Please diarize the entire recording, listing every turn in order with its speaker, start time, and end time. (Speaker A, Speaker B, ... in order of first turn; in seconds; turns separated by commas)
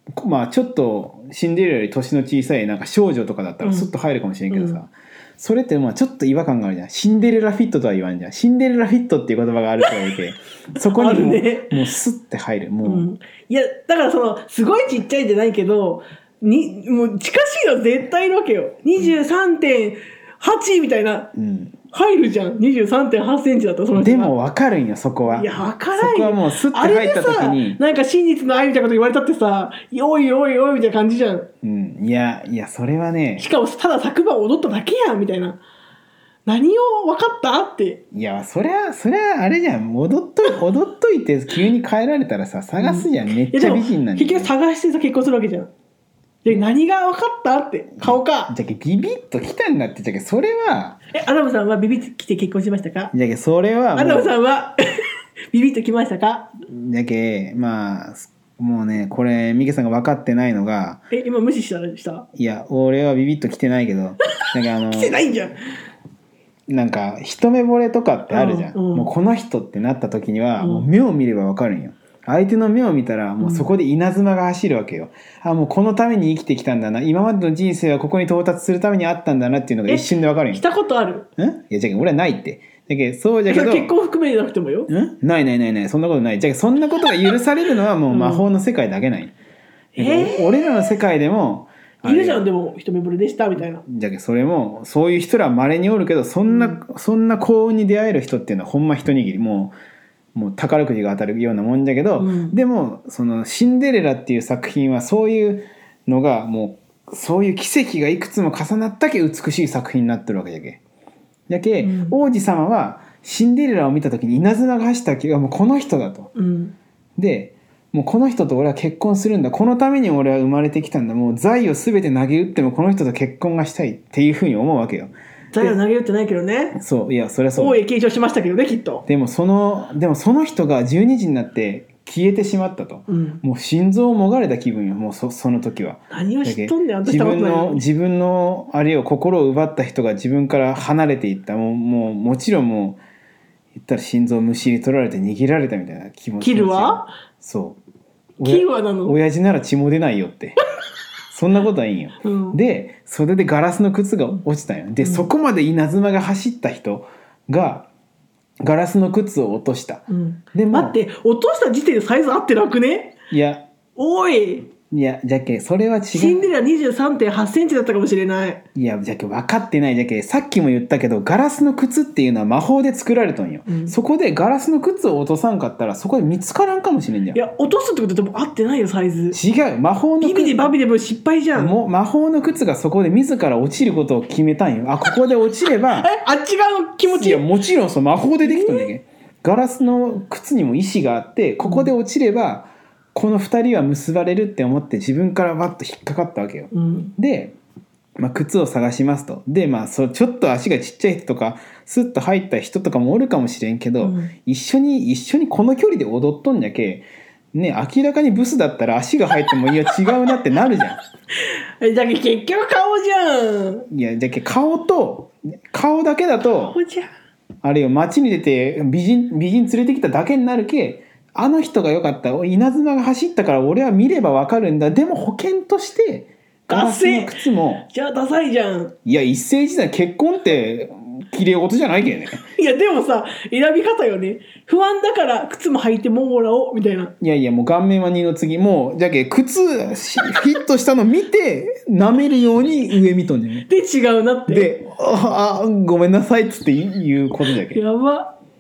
Speaker A: 0.1-13.1, Speaker B: 3.6-3.9, Speaker B: 4.5-4.8, Speaker B: 10.8-11.8, Speaker B: 12.8-21.3, Speaker A: 21.3-21.8, Speaker B: 21.9-24.3, Speaker A: 23.9-27.8, Speaker B: 25.3-31.5, Speaker A: 31.6-33.5, Speaker B: 33.4-35.6, Speaker B: 36.5-38.0, Speaker A: 38.1-44.5, Speaker B: 42.8-45.7, Speaker B: 46.4-48.5, Speaker A: 48.0-51.0, Speaker B: 51.1-53.1, Speaker A: 53.1-54.4, Speaker B: 53.9-54.8, Speaker B: 55.5-56.5, Speaker A: 56.7-61.0, Speaker B: 61.1-62.3, Speaker A: 62.3-65.2, Speaker B: 64.9-65.5, Speaker A: 66.7-80.6, Speaker B: 68.3-69.1, Speaker B: 70.6-70.9, Speaker B: 73.4-73.7, Speaker B: 79.9-81.3, Speaker A: 81.4-83.9, Speaker B: 83.5-84.9, Speaker A: 84.9-89.3, Speaker B: 88.1-88.5, Speaker B: 89.9-90.8, Speaker A: 90.0-92.4, Speaker B: 92.0-93.8, Speaker A: 93.8-99.7, Speaker B: 96.5-96.8, Speaker A: 100.3-110.8, Speaker B: 102.2-102.6, Speaker A: 111.5-116.3, Speaker B: 111.8-112.2, Speaker B: 116.3-116.7, Speaker A: 117.2-125.8, Speaker B: 125.5-126.8, Speaker A: 126.7-127.8, Speaker B: 127.5-129.0, Speaker A: 129.1-143.0, Speaker B: 133.1-133.4, Speaker B: 136.1-137.8, Speaker A: 143.8-147.8, Speaker B: 146.4-147.1, Speaker A: 148.4-150.6, Speaker B: 148.4-149.2, Speaker A: 151.3-157.9, Speaker B: 152.2-152.6, Speaker B: 155.0-155.2, Speaker A: 158.6-161.0, Speaker B: 160.1-163.1, Speaker A: 163.3-163.7, Speaker B: 163.9-164.7, Speaker A: 164.9-166.4, Speaker B: 166.1-168.6, Speaker A: 168.7-177.4, Speaker B: 173.7-173.9, Speaker B: 177.3-179.4, Speaker A: 179.3-180.7, Speaker B: 180.2-181.8, Speaker A: 181.5-186.1, Speaker B: 186.1-187.4, Speaker A: 187.1-197.5, Speaker B: 188.4-188.9, Speaker B: 191.6-191.9, Speaker B: 196.7-197.1, Speaker A: 198.2-211.0, Speaker B: 204.0-204.3, Speaker B: 211.8-213.9, Speaker A: 213.9-216.8, Speaker B: 216.6-217.1, Speaker A: 217.6-227.8, Speaker B: 226.7-228.9, Speaker A: 229.0-232.4, Speaker B: 232.4-237.1, Speaker A: 237.2-243.7, Speaker B: 243.7-244.7, Speaker A: 244.5-247.8, Speaker B: 247.7-248.3